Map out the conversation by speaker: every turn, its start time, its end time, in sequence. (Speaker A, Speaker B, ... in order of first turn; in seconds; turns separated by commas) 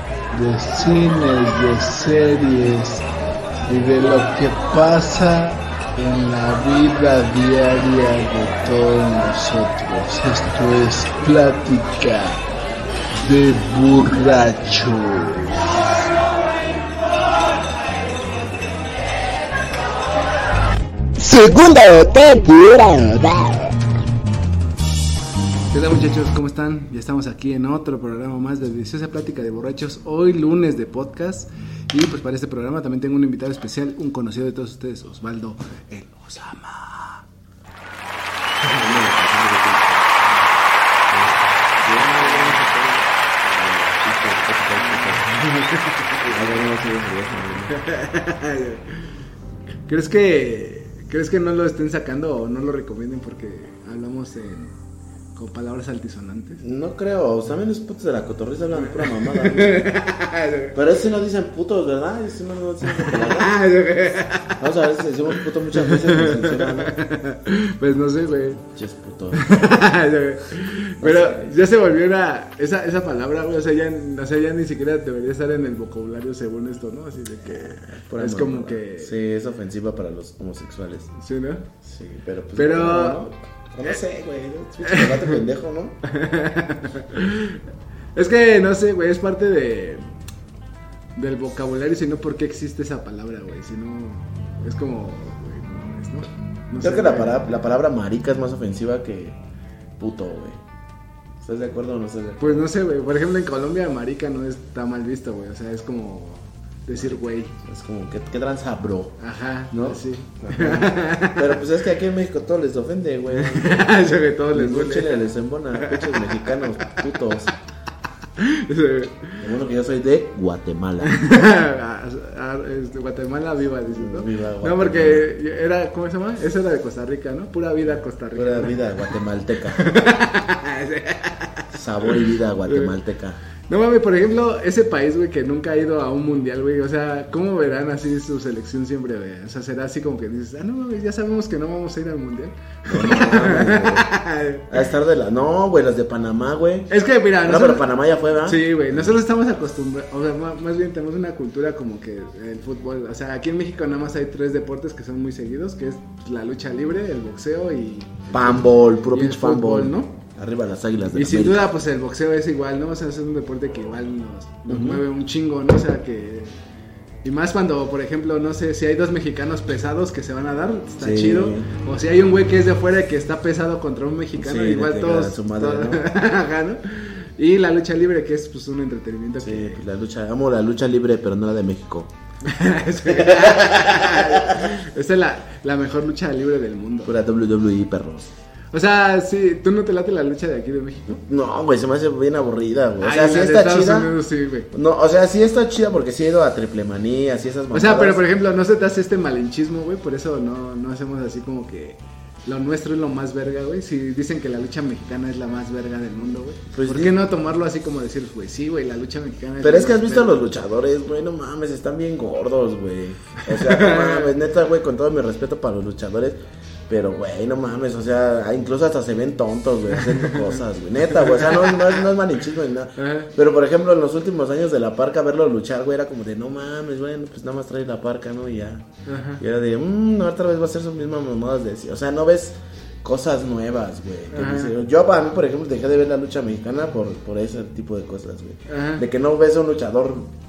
Speaker A: 0.3-3.0, Speaker A: 3.7-12.4, Speaker A: 13.2-15.8, Speaker A: 21.2-23.7, Speaker B: 25.7-37.2, Speaker C: 38.7-40.5, Speaker C: 41.1-45.3, Speaker B: 41.9-42.6, Speaker B: 44.8-46.4, Speaker C: 46.2-47.8, Speaker B: 47.7-49.1, Speaker B: 49.9-54.8, Speaker B: 55.4-56.6, Speaker C: 56.6-59.9, Speaker B: 58.8-60.8, Speaker C: 60.8-63.6, Speaker B: 62.8-64.6, Speaker C: 64.6-67.0, Speaker B: 65.3-68.6, Speaker C: 68.7-69.6, Speaker B: 69.3-79.2, Speaker C: 70.7-71.6, Speaker C: 77.5-81.1, Speaker B: 81.2-81.7, Speaker C: 81.8-86.0, Speaker B: 82.6-83.2, Speaker B: 84.8-85.4, Speaker B: 86.0-87.6, Speaker B: 88.2-90.1, Speaker B: 91.2-97.4, Speaker C: 96.8-99.4, Speaker C: 100.0-100.6, Speaker C: 101.4-102.7, Speaker B: 102.4-107.6, Speaker C: 107.0-109.2, Speaker B: 109.2-111.6, Speaker C: 109.7-114.0, Speaker B: 113.3-117.0, Speaker C: 114.5-117.5, Speaker B: 118.4-119.5, Speaker C: 119.4-121.1, Speaker B: 121.0-129.1, Speaker C: 123.9-125.3, Speaker C: 128.3-129.9, Speaker B: 129.7-132.9, Speaker C: 131.7-133.4, Speaker B: 133.7-144.8, Speaker C: 142.9-144.1, Speaker C: 144.7-146.9, Speaker B: 146.9-147.9, Speaker C: 147.4-149.2, Speaker B: 148.4-160.2, Speaker C: 158.3-161.7, Speaker B: 161.1-166.6, Speaker C: 164.7-165.0, Speaker B: 167.2-179.8, Speaker C: 171.0-171.7, Speaker C: 174.4-176.1, Speaker C: 179.4-182.1, Speaker B: 182.4-187.1, Speaker C: 183.1-184.8, Speaker C: 187.1-188.3, Speaker B: 188.7-191.2, Speaker C: 191.1-194.1, Speaker B: 193.0-194.7, Speaker C: 194.7-198.2, Speaker B: 197.7-210.5, Speaker C: 206.7-207.2, Speaker C: 209.6-216.4, Speaker B: 213.4-214.3, Speaker C: 216.9-228.9, Speaker B: 219.9-220.6, Speaker B: 221.1-222.0, Speaker B: 223.0-223.3, Speaker B: 229.1-229.4, Speaker C: 229.4-240.3, Speaker B: 234.3-234.7, Speaker B: 238.7-239.0